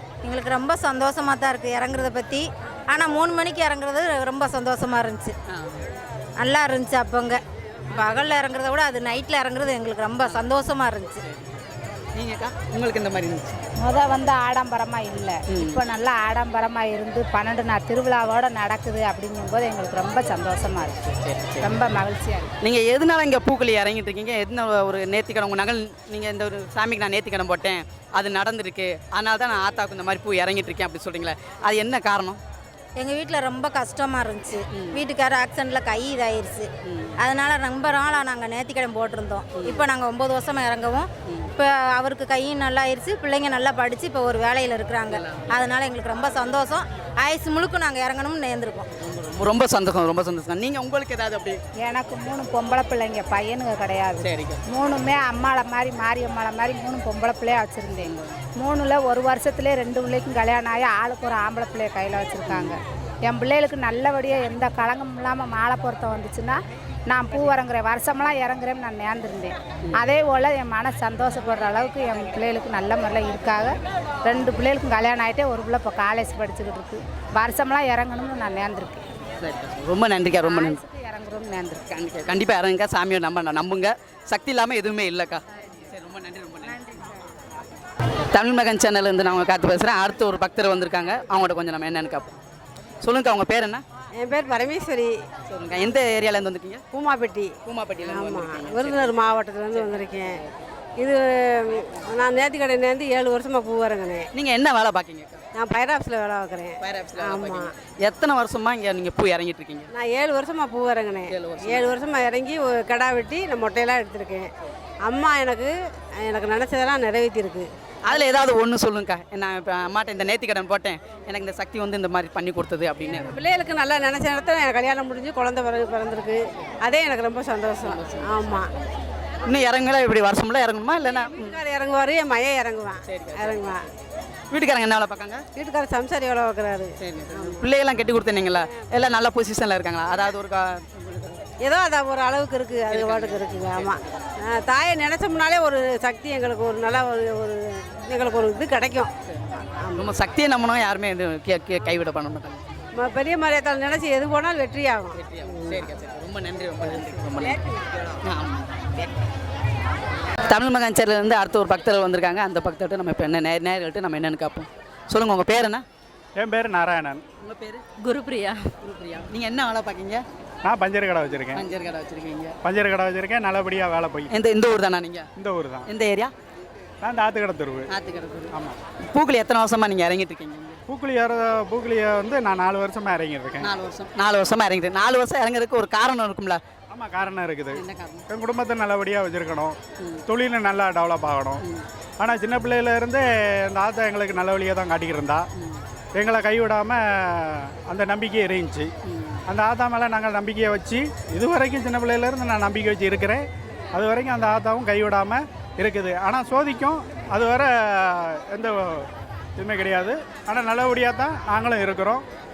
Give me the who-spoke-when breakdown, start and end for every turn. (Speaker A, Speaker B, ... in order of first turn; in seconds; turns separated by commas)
Speaker A: 0.2-5.3, Speaker B: 5.5-5.8, Speaker A: 6.4-7.4, Speaker A: 7.9-11.2, Speaker B: 10.2-10.5, Speaker B: 11.2-11.6, Speaker B: 12.2-13.6, Speaker C: 13.8-22.5, Speaker B: 15.5-15.8, Speaker B: 21.2-21.7, Speaker B: 22.6-32.4, Speaker A: 33.0-36.7, Speaker B: 34.7-35.0, Speaker B: 36.9-37.2, Speaker A: 37.2-48.9, Speaker B: 39.5-39.9, Speaker B: 41.3-41.5, Speaker B: 45.1-45.6, Speaker B: 49.0-51.6, Speaker C: 51.8-79.0, Speaker B: 54.2-54.6, Speaker B: 58.0-58.4, Speaker B: 62.5-62.8, Speaker B: 79.4-80.8, Speaker C: 80.4-81.9, Speaker B: 81.9-86.9, Speaker B: 88.3-92.4, Speaker B: 93.0-93.8, Speaker D: 94.2-95.1, Speaker B: 95.5-96.8, Speaker D: 96.9-97.5, Speaker B: 97.7-100.5, Speaker D: 98.0-100.3, Speaker D: 101.0-104.3, Speaker B: 104.3-105.4, Speaker D: 105.5-107.7, Speaker B: 106.8-109.9, Speaker D: 110.0-114.5, Speaker B: 111.3-112.0, Speaker D: 115.1-115.7, Speaker D: 116.2-118.2, Speaker B: 118.1-123.3, Speaker D: 123.3-128.7, Speaker B: 127.8-128.4, Speaker B: 129.5-131.6, Speaker D: 131.4-133.8, Speaker B: 133.1-133.8, Speaker B: 134.5-135.4, Speaker D: 135.6-137.7, Speaker B: 137.0-141.4, Speaker D: 141.6-149.1, Speaker B: 142.9-144.2, Speaker B: 149.3-152.6, Speaker D: 149.7-150.1, Speaker D: 152.9-155.2, Speaker B: 155.1-157.6, Speaker B: 158.2-158.6, Speaker B: 160.5-165.8, Speaker E: 166.4-167.2, Speaker B: 167.4-167.8, Speaker A: 168.0-168.5, Speaker B: 168.8-170.2, Speaker E: 170.6-171.7, Speaker B: 171.5-172.6, Speaker E: 172.6-174.3, Speaker B: 174.3-175.3, Speaker E: 175.4-175.9, Speaker B: 175.9-176.3, Speaker E: 177.0-177.9, Speaker B: 177.9-178.5, Speaker B: 179.0-180.8, Speaker E: 180.9-183.7, Speaker B: 183.6-186.6, Speaker E: 186.9-189.8, Speaker B: 187.8-188.2, Speaker E: 190.3-191.6, Speaker E: 192.2-195.4, Speaker B: 195.6-195.8, Speaker E: 196.2-198.9, Speaker B: 199.1-199.4, Speaker E: 199.5-212.2